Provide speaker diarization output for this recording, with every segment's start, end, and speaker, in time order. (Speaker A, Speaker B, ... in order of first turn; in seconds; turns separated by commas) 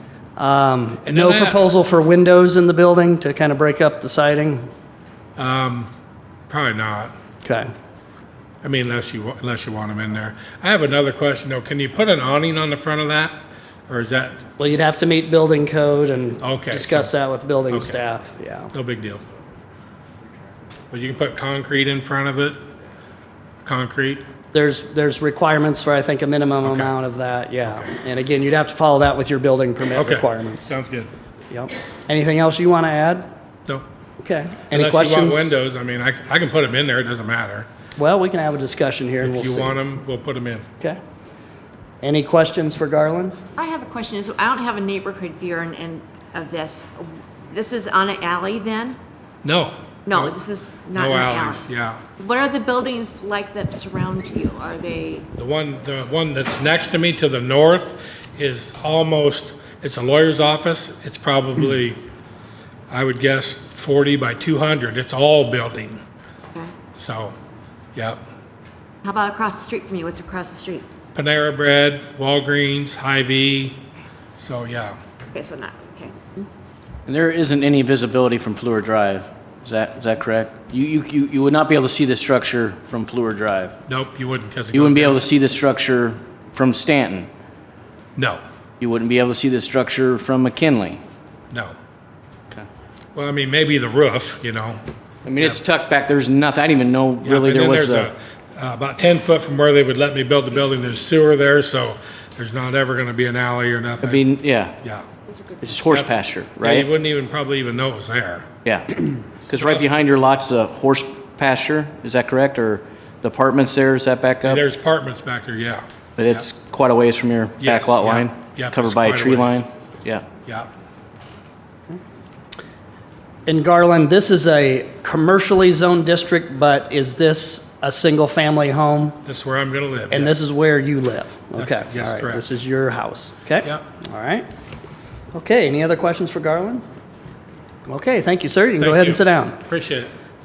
Speaker A: 0.4-4.7, Speaker B: 1.0-1.6, Speaker B: 5.4-5.9, Speaker B: 6.5-7.1, Speaker A: 7.5-7.7, Speaker B: 8.6-13.4, Speaker B: 13.9-14.4, Speaker A: 14.6-18.7, Speaker B: 16.4-17.1, Speaker B: 17.7-18.0, Speaker B: 18.7-19.2, Speaker B: 20.9-22.6, Speaker B: 23.6-24.2, Speaker A: 24.5-30.7, Speaker B: 26.6-26.9, Speaker B: 27.6-27.9, Speaker B: 30.0-31.1, Speaker A: 31.5-33.3, Speaker A: 34.2-35.5, Speaker B: 34.7-37.7, Speaker A: 38.0-39.8, Speaker B: 39.2-40.6, Speaker A: 42.0-43.4, Speaker C: 43.6-49.0, Speaker B: 49.4-50.4, Speaker C: 50.1-51.6, Speaker B: 51.0-52.0, Speaker C: 52.2-55.3, Speaker B: 55.4-62.0, Speaker B: 62.9-66.0, Speaker B: 67.0-67.3, Speaker C: 69.0-70.9, Speaker B: 71.2-73.8, Speaker B: 74.4-75.0, Speaker C: 75.3-76.5, Speaker D: 77.1-83.8, Speaker B: 83.9-85.3, Speaker D: 84.7-87.3, Speaker B: 88.2-88.4, Speaker D: 88.8-91.0, Speaker B: 93.2-94.8, Speaker D: 95.2-98.1, Speaker B: 97.2-104.3, Speaker D: 104.0-104.8, Speaker D: 105.6-106.9, Speaker B: 105.9-108.5, Speaker D: 108.6-114.7, Speaker B: 109.5-110.0, Speaker B: 114.5-116.5, Speaker D: 116.2-120.3, Speaker B: 117.6-119.6, Speaker B: 120.4-120.7, Speaker A: 123.5-129.2, Speaker B: 129.2-130.3, Speaker A: 130.1-134.5, Speaker B: 131.6-132.4, Speaker A: 135.3-136.8, Speaker A: 137.9-139.6, Speaker B: 138.8-140.1